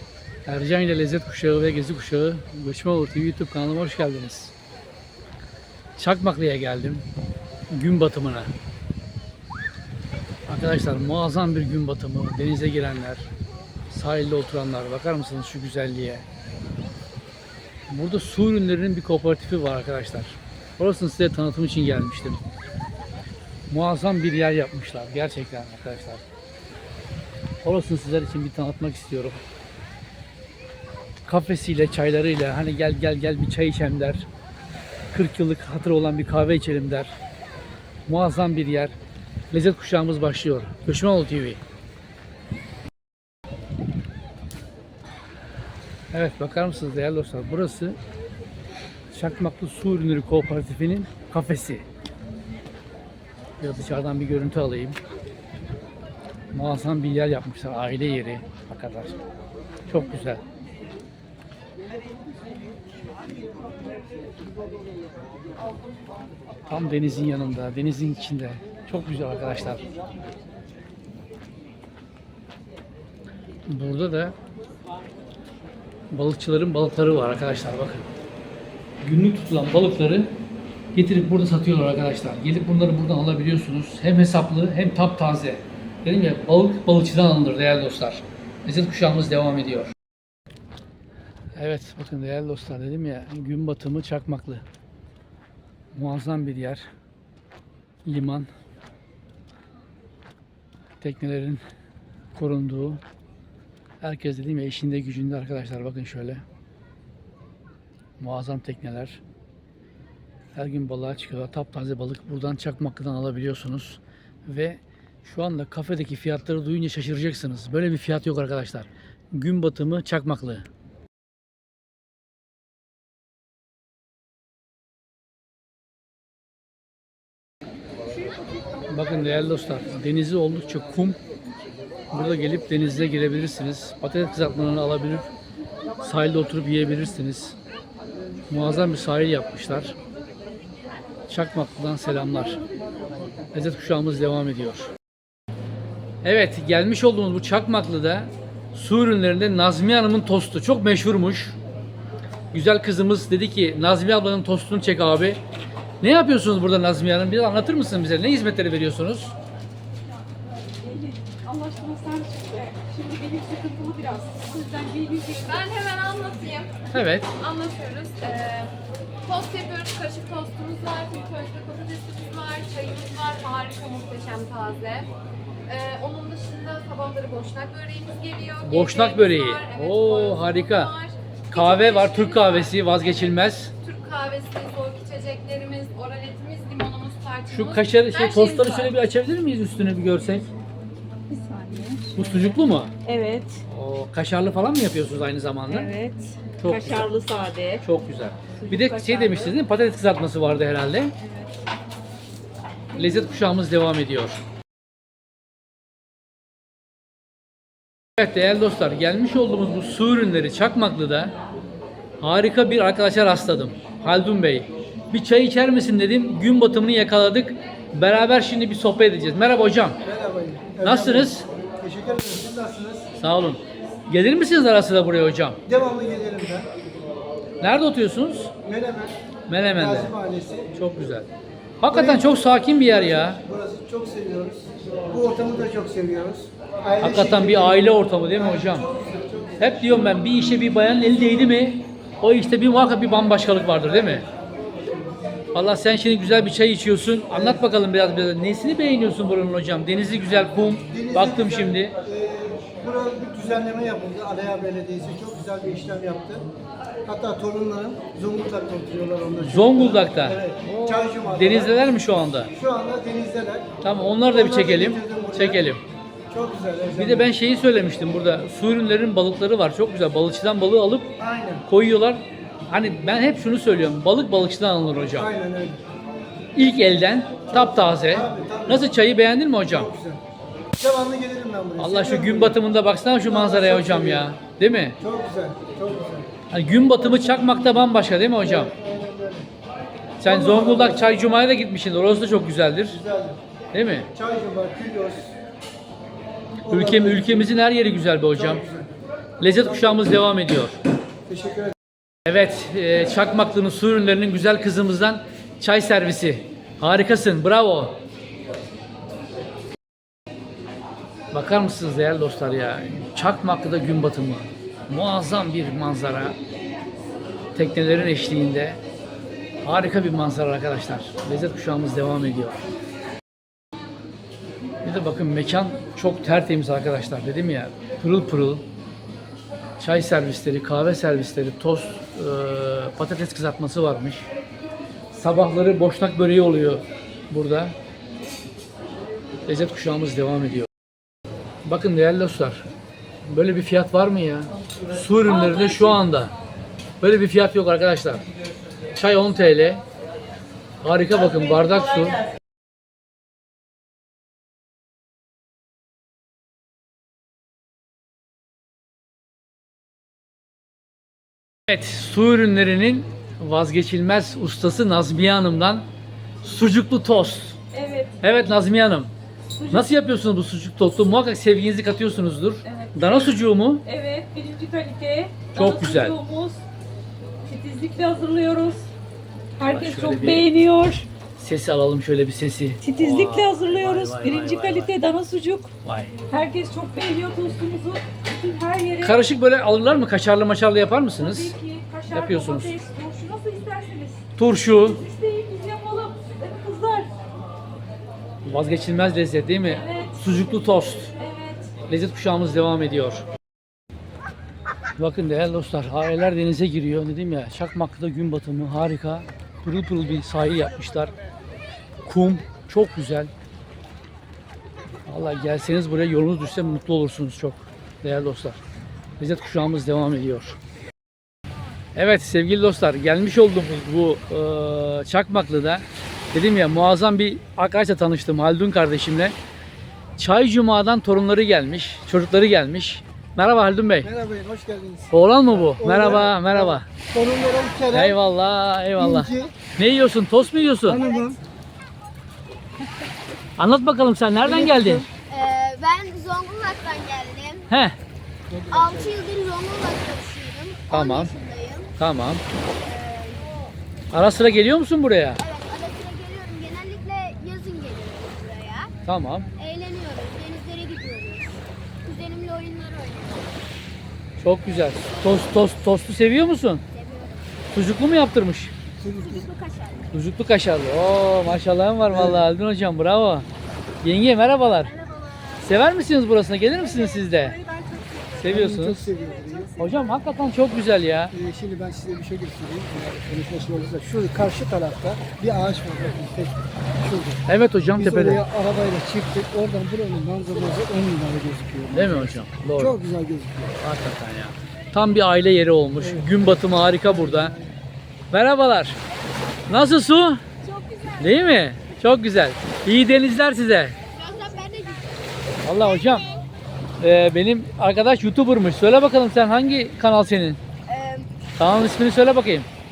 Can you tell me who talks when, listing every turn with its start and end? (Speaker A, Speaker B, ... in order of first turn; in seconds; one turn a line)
Speaker A: 0.5-4.5
Speaker A: 6.0-7.0
Speaker A: 7.7-8.5
Speaker A: 10.5-13.3
Speaker A: 13.9-16.2
Speaker A: 17.9-22.4
Speaker A: 23.7-26.2
Speaker A: 27.6-29.4
Speaker A: 31.2-34.3
Speaker A: 35.1-37.1
Speaker A: 38.0-38.9
Speaker A: 39.5-41.6
Speaker A: 46.1-48.0
Speaker A: 49.1-51.8
Speaker A: 53.6-55.0
Speaker A: 56.5-59.1
Speaker A: 59.9-60.4
Speaker A: 66.7-69.8
Speaker A: 73.7-74.3
Speaker A: 76.1-78.1
Speaker A: 79.0-80.3
Speaker A: 80.9-89.9
Speaker A: 91.5-94.6
Speaker A: 95.9-96.8
Speaker A: 98.0-98.5
Speaker A: 101.0-101.6
Speaker A: 102.3-103.0
Speaker A: 104.0-106.4
Speaker A: 108.2-109.2
Speaker A: 110.5-120.7
Speaker A: 128.9-131.2
Speaker A: 132.1-135.3
Speaker A: 136.0-137.6
Speaker A: 138.5-139.9
Speaker A: 141.3-142.6
Speaker A: 143.5-144.9
Speaker A: 146.2-151.6
Speaker A: 152.5-155.4
Speaker A: 156.0-159.3
Speaker B: 160.8-165.4
Speaker C: 165.4-168.7
Speaker A: 166.9-167.3
Speaker C: 169.2-175.1
Speaker C: 175.7-188.9
Speaker A: 178.6-180.9
Speaker A: 181.5-183.7
Speaker A: 187.5-190.5
Speaker B: 191.3-192.2
Speaker A: 192.1-192.9
Speaker B: 193.0-193.6
Speaker A: 193.7-195.9
Speaker B: 195.7-197.8
Speaker A: 196.6-197.1
Speaker A: 197.8-201.1
Speaker B: 198.6-199.5
Speaker A: 202.9-204.4
Speaker A: 208.2-211.3
Speaker A: 212.2-220.0
Speaker D: 220.0-223.1
Speaker A: 220.8-221.4
Speaker A: 223.2-225.6
Speaker D: 225.6-226.7
Speaker A: 227.6-228.5
Speaker D: 228.6-229.2
Speaker A: 229.5-230.1
Speaker D: 229.7-230.7
Speaker A: 230.7-231.3
Speaker A: 231.8-233.4
Speaker D: 231.9-239.7
Speaker A: 237.0-238.8
Speaker A: 239.6-244.3
Speaker A: 245.5-251.9
Speaker D: 247.3-247.6
Speaker D: 250.9-256.4
Speaker D: 257.0-261.8
Speaker A: 259.4-262.5
Speaker D: 262.5-263.7
Speaker A: 263.8-265.8
Speaker D: 264.2-265.6
Speaker D: 266.3-267.3
Speaker A: 266.9-271.1
Speaker D: 271.2-271.6
Speaker A: 271.7-275.3
Speaker D: 275.1-275.8
Speaker A: 276.5-279.9
Speaker D: 277.5-278.9
Speaker D: 279.6-280.2
Speaker D: 280.8-282.6
Speaker A: 281.8-285.0
Speaker D: 283.2-284.3
Speaker D: 285.0-286.3
Speaker A: 286.5-288.7
Speaker D: 288.4-289.5
Speaker A: 290.2-293.0
Speaker D: 290.2-291.1
Speaker D: 292.9-293.4
Speaker A: 293.7-294.1
Speaker D: 294.1-295.4
Speaker A: 296.6-298.6
Speaker D: 296.6-297.5
Speaker D: 298.3-298.9
Speaker A: 299.4-300.8
Speaker D: 299.7-300.0
Speaker D: 301.3-301.7
Speaker A: 302.2-308.0
Speaker A: 311.3-316.4
Speaker A: 317.5-318.8
Speaker A: 319.6-322.6
Speaker A: 324.8-328.6
Speaker A: 329.8-334.3
Speaker A: 335.1-337.7
Speaker A: 339.4-340.7
Speaker A: 341.6-342.7
Speaker A: 343.2-346.3
Speaker A: 347.0-348.2
Speaker A: 348.9-349.8
Speaker A: 350.8-352.2
Speaker A: 361.7-365.9
Speaker A: 366.4-367.6
Speaker B: 367.7-368.2
Speaker A: 368.2-369.1
Speaker B: 369.6-369.9
Speaker A: 369.7-373.9
Speaker B: 372.6-373.3
Speaker B: 373.8-376.6
Speaker A: 375.5-376.2
Speaker B: 377.4-378.9
Speaker B: 379.6-381.1
Speaker A: 379.6-380.5
Speaker A: 381.4-384.9
Speaker B: 382.8-385.7
Speaker A: 385.8-386.1
Speaker B: 386.3-389.2
Speaker A: 389.0-391.6
Speaker B: 391.2-394.3
Speaker A: 392.1-392.8
Speaker A: 394.4-395.0
Speaker B: 394.8-397.1
Speaker A: 398.4-401.1
Speaker B: 399.7-401.7
Speaker A: 401.8-403.2
Speaker A: 405.0-411.1
Speaker A: 412.0-413.3
Speaker A: 415.1-418.6
Speaker A: 419.2-420.6
Speaker A: 421.9-429.4
Speaker A: 430.2-434.1
Speaker D: 434.0-438.2
Speaker A: 435.1-436.9
Speaker A: 437.9-441.1
Speaker D: 438.9-439.5
Speaker D: 440.8-441.4
Speaker E: 441.0-441.3
Speaker A: 443.6-445.1
Speaker D: 444.4-445.1
Speaker E: 445.2-447.7
Speaker A: 447.7-448.0
Speaker D: 448.5-449.0
Speaker E: 448.7-451.9
Speaker A: 450.9-451.3
Speaker A: 452.0-452.4
Speaker E: 452.8-453.5
Speaker A: 454.1-455.4
Speaker E: 455.4-458.9
Speaker A: 459.0-459.5
Speaker E: 459.6-463.6
Speaker A: 464.4-466.8
Speaker E: 466.9-467.6
Speaker A: 467.7-468.7
Speaker D: 469.0-469.5
Speaker E: 469.1-470.1
Speaker A: 470.1-473.5
Speaker D: 472.1-472.4
Speaker A: 474.0-474.9
Speaker E: 474.8-475.8
Speaker A: 475.6-477.6
Speaker E: 477.2-477.9
Speaker B: 477.9-478.4
Speaker A: 478.4-479.1
Speaker D: 478.4-480.0
Speaker A: 479.8-481.3
Speaker D: 481.3-487.4
Speaker A: 487.4-488.4
Speaker D: 487.9-493.7
Speaker A: 491.9-493.0
Speaker A: 493.8-497.5
Speaker D: 496.0-497.7
Speaker A: 498.3-499.0
Speaker A: 499.7-500.4
Speaker E: 500.6-501.3
Speaker A: 501.2-503.9
Speaker E: 504.1-506.4
Speaker A: 505.6-506.3
Speaker A: 507.0-510.6
Speaker E: 510.9-511.3
Speaker A: 511.6-512.7